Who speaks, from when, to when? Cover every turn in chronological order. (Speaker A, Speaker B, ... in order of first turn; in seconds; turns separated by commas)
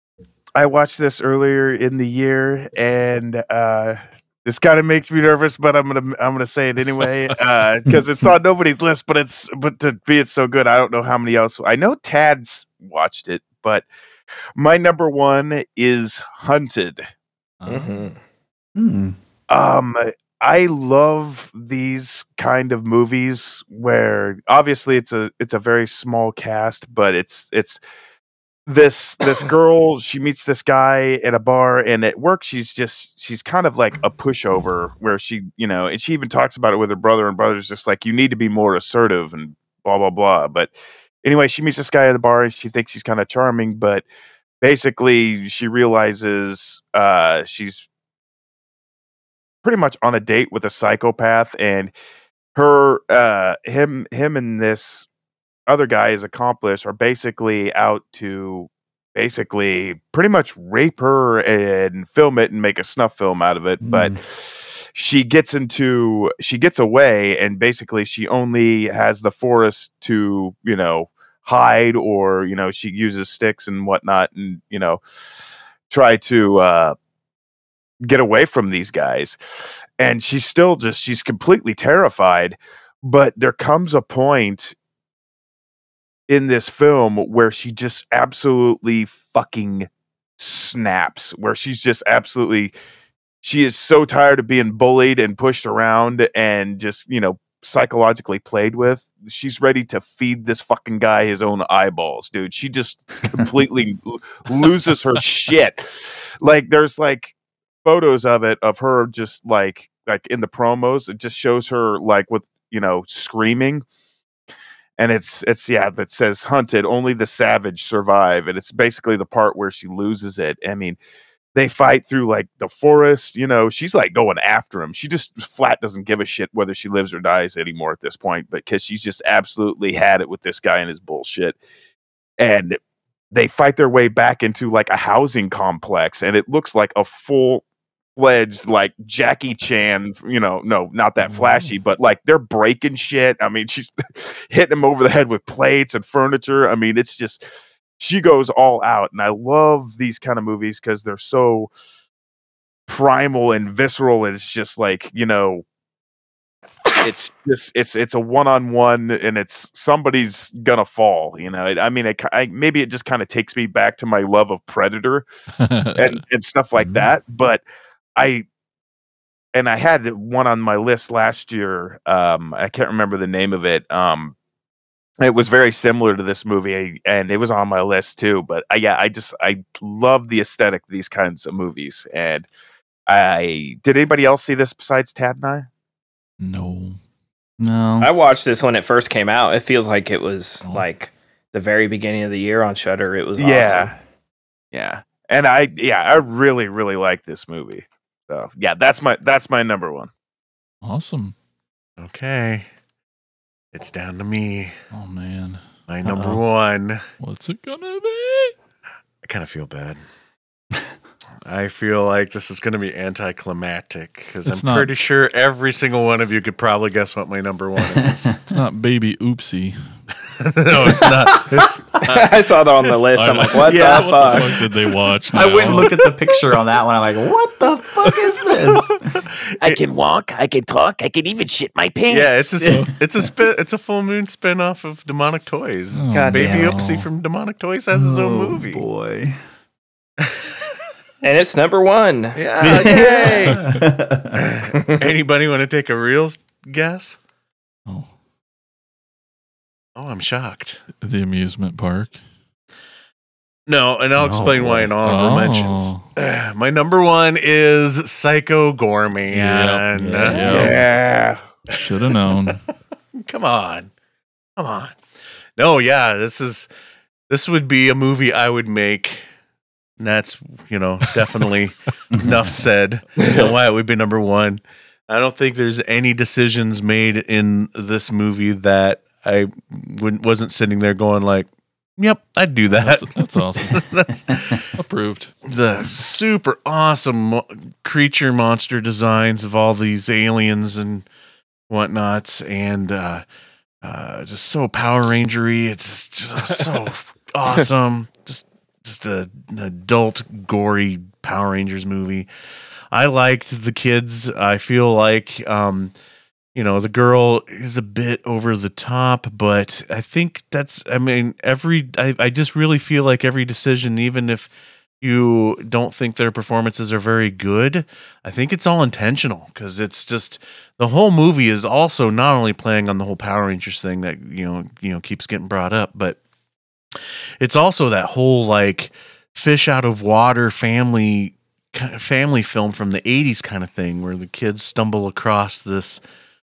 Speaker A: 0.6-13.9, Speaker A: 14.6-17.1, Speaker B: 17.6-18.1, Speaker C: 17.7-18.2, Speaker D: 18.8-19.2, Speaker A: 19.5-27.8, Speaker A: 28.7-44.0, Speaker A: 44.6-47.9, Speaker A: 49.6-51.9, Speaker A: 52.5-55.1, Speaker A: 55.7-75.0, Speaker D: 63.8-64.2, Speaker A: 75.9-77.0, Speaker A: 78.0-79.4, Speaker A: 80.0-84.8, Speaker A: 86.3-89.9, Speaker A: 90.4-92.7, Speaker A: 93.4-113.8, Speaker A: 115.0-121.0, Speaker A: 121.5-131.6, Speaker A: 132.4-132.8, Speaker A: 133.3-137.6, Speaker A: 138.2-147.4, Speaker B: 141.3-141.7, Speaker A: 148.0-151.7, Speaker A: 152.9-155.6, Speaker A: 157.0-165.3, Speaker B: 165.6-166.2, Speaker A: 166.0-167.6, Speaker D: 166.8-167.1, Speaker A: 168.2-168.4, Speaker A: 169.5-174.3, Speaker A: 175.2-182.5, Speaker A: 183.1-185.7, Speaker B: 186.4-187.0, Speaker D: 187.6-188.1, Speaker C: 188.0-193.9, Speaker A: 193.4-193.9, Speaker A: 194.7-200.1, Speaker B: 200.8-201.3, Speaker E: 202.0-202.7, Speaker E: 203.7-204.8, Speaker B: 204.9-206.4, Speaker E: 205.9-207.1, Speaker B: 207.2-208.6, Speaker E: 209.2-210.0, Speaker E: 211.5-218.3, Speaker B: 214.4-214.9, Speaker D: 217.9-218.4, Speaker B: 218.5-219.8, Speaker E: 220.3-222.3, Speaker D: 220.8-221.4, Speaker C: 222.1-224.6, Speaker B: 223.2-226.1, Speaker D: 225.3-229.0, Speaker A: 229.6-232.6, Speaker E: 232.1-238.8, Speaker B: 235.9-237.1, Speaker C: 236.1-236.7, Speaker D: 237.9-239.4, Speaker C: 241.2-242.4, Speaker E: 242.3-243.6, Speaker D: 242.6-244.4, Speaker E: 244.3-247.2, Speaker E: 250.0-250.8, Speaker B: 251.0-252.2, Speaker E: 253.7-260.8, Speaker D: 254.2-254.9, Speaker B: 255.0-256.0, Speaker B: 259.3-260.8, Speaker D: 259.9-260.7, Speaker A: 260.4-261.4, Speaker B: 261.7-262.6, Speaker E: 263.1-263.9, Speaker E: 264.6-265.0, Speaker E: 265.6-266.7, Speaker E: 267.3-269.2, Speaker E: 270.0-284.6, Speaker D: 272.1-272.4, Speaker B: 282.8-283.9, Speaker B: 284.8-285.3, Speaker E: 285.5-291.1, Speaker E: 291.7-293.2, Speaker E: 293.8-302.3, Speaker E: 302.9-305.9, Speaker E: 306.6-326.2, Speaker E: 327.4-336.0